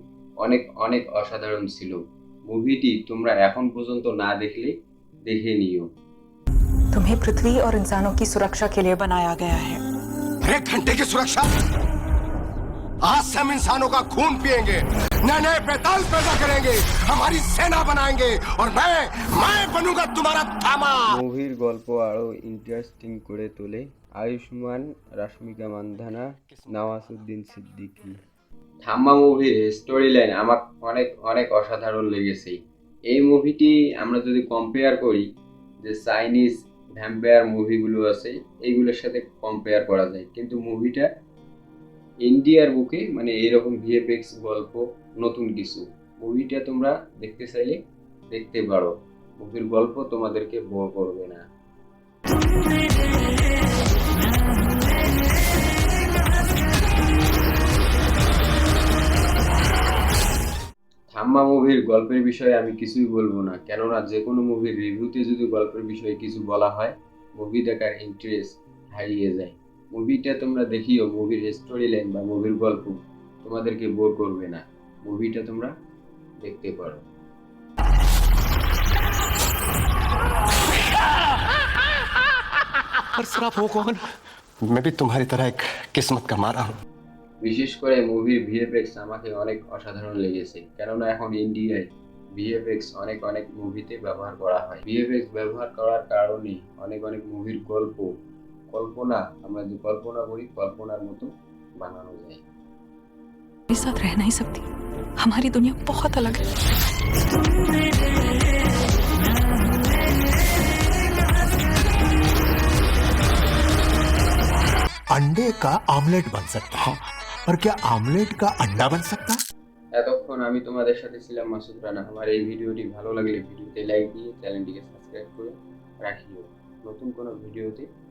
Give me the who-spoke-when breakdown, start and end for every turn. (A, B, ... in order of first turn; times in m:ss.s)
0:00.4-0:04.7 A
0:05.3-0:05.9 A
0:06.9-0:09.8 B
0:10.4-0:11.5 C
0:13.0-0:21.1 C
0:21.1-0:28.2 A
0:28.8-0:32.6 A
0:33.1-0:35.2 A
0:35.8-0:41.1 A
0:42.2-0:47.8 A
0:48.3-0:51.4 A
1:01.1-1:15.7 A
1:16.4-1:17.0 A
1:23.2-1:24.0 C
1:24.6-1:26.7 C
1:27.4-1:38.1 A
1:38.7-1:42.4 A
1:43.7-1:44.7 B
1:45.2-1:46.5 B
1:55.1-1:56.9 D
1:57.4-1:59.4 D
2:00.0-2:07.9 A